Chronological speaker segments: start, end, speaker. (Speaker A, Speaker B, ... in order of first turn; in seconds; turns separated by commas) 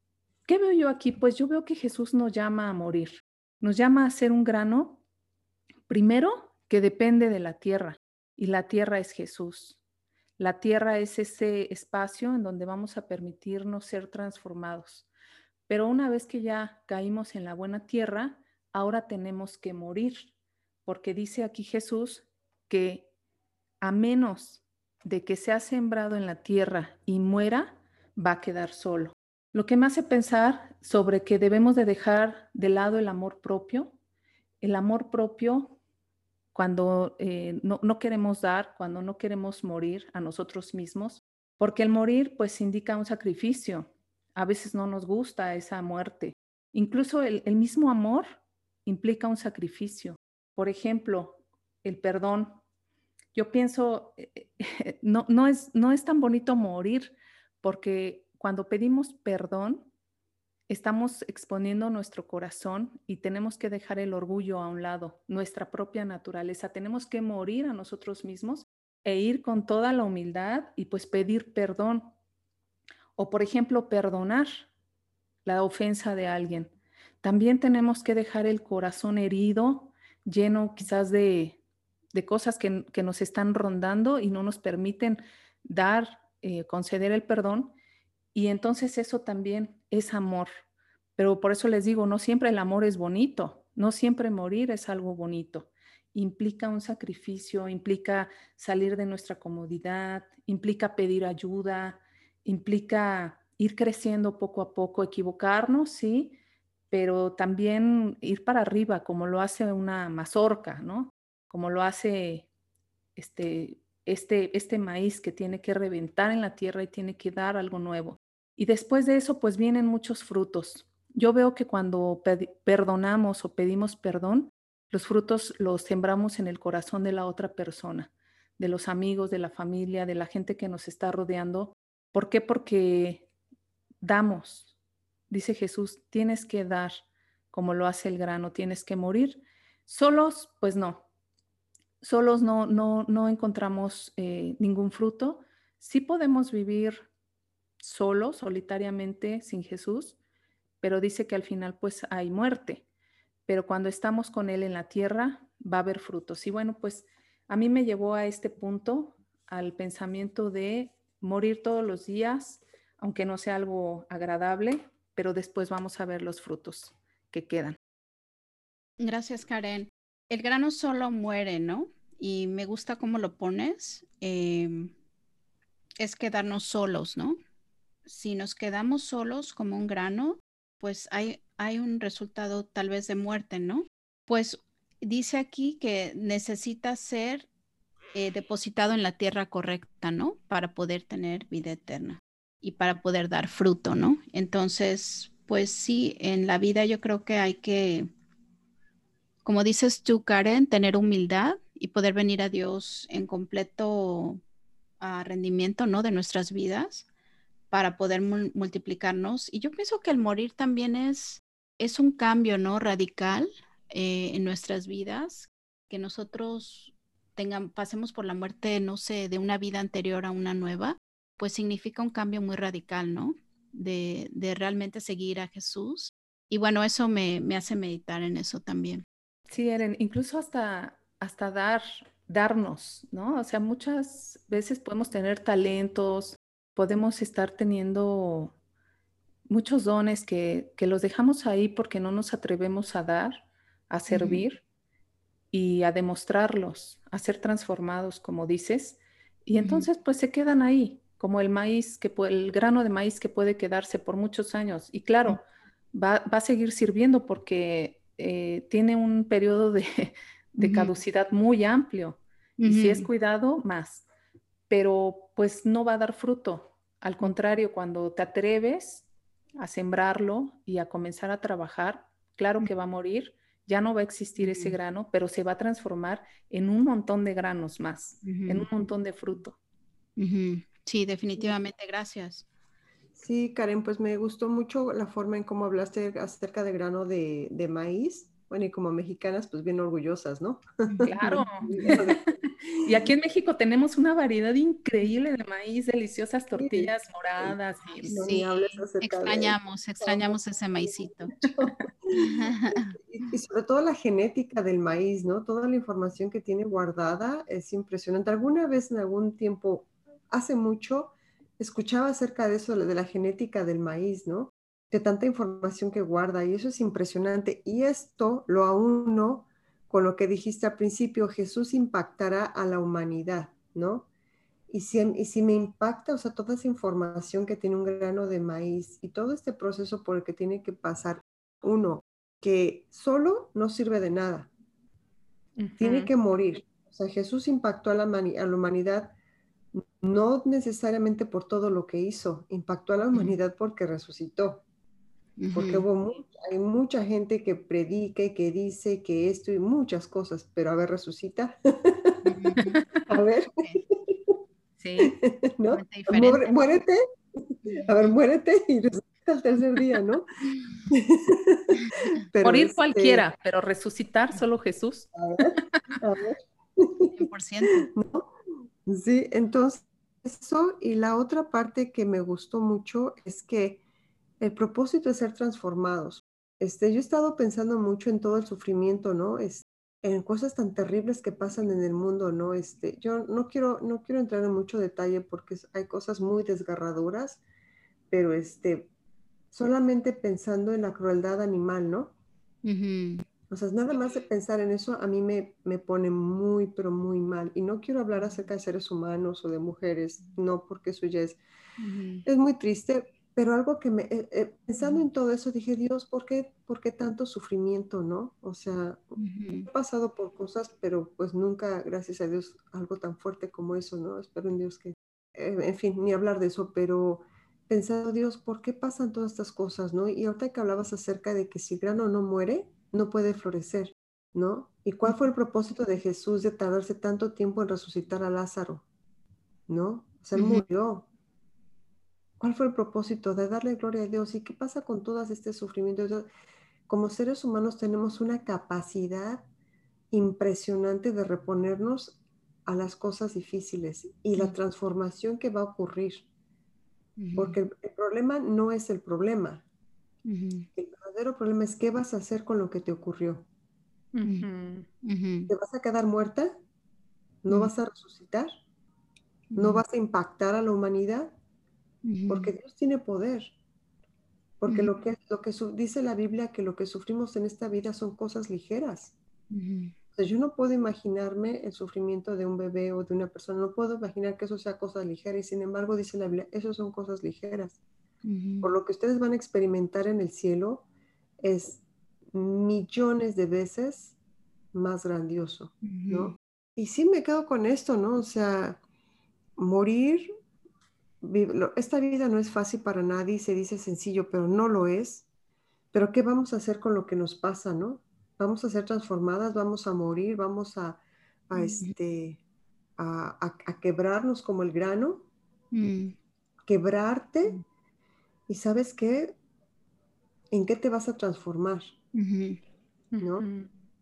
Speaker A: 0.5-5.0, Speaker A: 5.9-9.8, Speaker A: 10.4-15.1, Speaker A: 15.7-20.3, Speaker A: 20.8-23.1, Speaker A: 23.8-33.9, Speaker A: 34.6-35.8, Speaker A: 36.5-52.6, Speaker A: 53.3-59.9, Speaker A: 60.7-72.1, Speaker A: 73.2-74.7, Speaker A: 75.4-81.6, Speaker A: 82.1-87.7, Speaker A: 88.3-90.5, Speaker A: 91.2-106.3, Speaker A: 106.9-112.5, Speaker A: 113.2-133.2, Speaker A: 134.0-134.7, Speaker A: 135.3-137.0, Speaker A: 137.5-141.0, Speaker A: 142.0-147.1, Speaker A: 147.8-150.2, Speaker A: 150.8-152.8, Speaker A: 153.5-167.8, Speaker B: 169.0-174.9, Speaker B: 176.0-177.4, Speaker B: 178.1-187.5, Speaker B: 188.1-198.1, Speaker B: 199.4-204.4, Speaker B: 205.0-207.1, Speaker B: 207.7-229.0, Speaker A: 229.5-238.5, Speaker A: 239.5-243.4, Speaker A: 243.9-244.6, Speaker B: 244.1-244.4, Speaker A: 245.5-255.4, Speaker B: 249.6-249.9, Speaker A: 255.9-264.0, Speaker B: 260.6-260.9, Speaker B: 262.6-263.1, Speaker A: 264.7-269.1, Speaker A: 269.6-279.6, Speaker B: 274.4-274.8, Speaker B: 278.2-278.7, Speaker B: 280.2-282.4, Speaker C: 283.1-291.1, Speaker B: 290.9-292.0, Speaker A: 291.0-291.9, Speaker C: 291.6-292.8, Speaker A: 292.8-298.2, Speaker C: 296.6-297.6, Speaker B: 297.9-301.3, Speaker C: 298.1-324.1, Speaker B: 302.1-303.0, Speaker C: 324.7-334.5, Speaker A: 335.6-336.1, Speaker C: 335.8-339.1, Speaker C: 339.7-344.6, Speaker B: 345.4-345.8, Speaker C: 345.5-352.2, Speaker B: 352.2-352.8, Speaker A: 352.6-353.1, Speaker C: 353.1-354.3, Speaker A: 354.8-355.1, Speaker C: 355.0-357.0, Speaker B: 355.7-356.6, Speaker B: 357.7-357.9, Speaker C: 357.7-360.2, Speaker C: 360.9-363.2, Speaker B: 361.8-362.1, Speaker A: 362.4-365.6, Speaker C: 365.1-367.1, Speaker B: 367.1-367.9, Speaker C: 367.9-368.3, Speaker C: 368.9-373.8, Speaker C: 374.4-387.4, Speaker C: 388.1-388.9, Speaker C: 389.5-392.1, Speaker B: 392.6-393.2, Speaker C: 393.5-401.4, Speaker B: 401.8-402.2, Speaker C: 402.2-409.1, Speaker B: 409.2-409.7, Speaker C: 409.7-428.8, Speaker C: 429.7-431.1, Speaker B: 430.3-430.6, Speaker C: 432.4-436.3, Speaker C: 436.9-439.4, Speaker C: 440.1-446.2, Speaker B: 447.2-447.6, Speaker C: 447.4-449.6, Speaker B: 450.2-450.7, Speaker C: 450.7-453.4, Speaker A: 454.1-454.9, Speaker B: 455.0-455.5, Speaker C: 455.5-456.5, Speaker C: 457.4-458.5, Speaker B: 459.5-459.8, Speaker C: 459.6-461.3, Speaker B: 462.0-462.5, Speaker C: 462.3-463.5, Speaker C: 464.6-469.1, Speaker B: 464.7-464.9, Speaker B: 469.5-469.9, Speaker C: 470.1-477.8, Speaker B: 478.2-478.7, Speaker C: 478.6-480.9, Speaker C: 481.4-484.1, Speaker C: 484.7-488.8, Speaker B: 485.8-486.3, Speaker C: 489.6-490.3, Speaker C: 491.2-495.2, Speaker C: 495.9-502.4, Speaker B: 501.6-501.9, Speaker C: 503.0-505.3, Speaker B: 505.7-506.1, Speaker C: 506.6-507.6, Speaker C: 508.5-509.4, Speaker C: 510.5-511.9, Speaker B: 512.1-512.6, Speaker A: 513.1-513.7, Speaker C: 513.2-513.5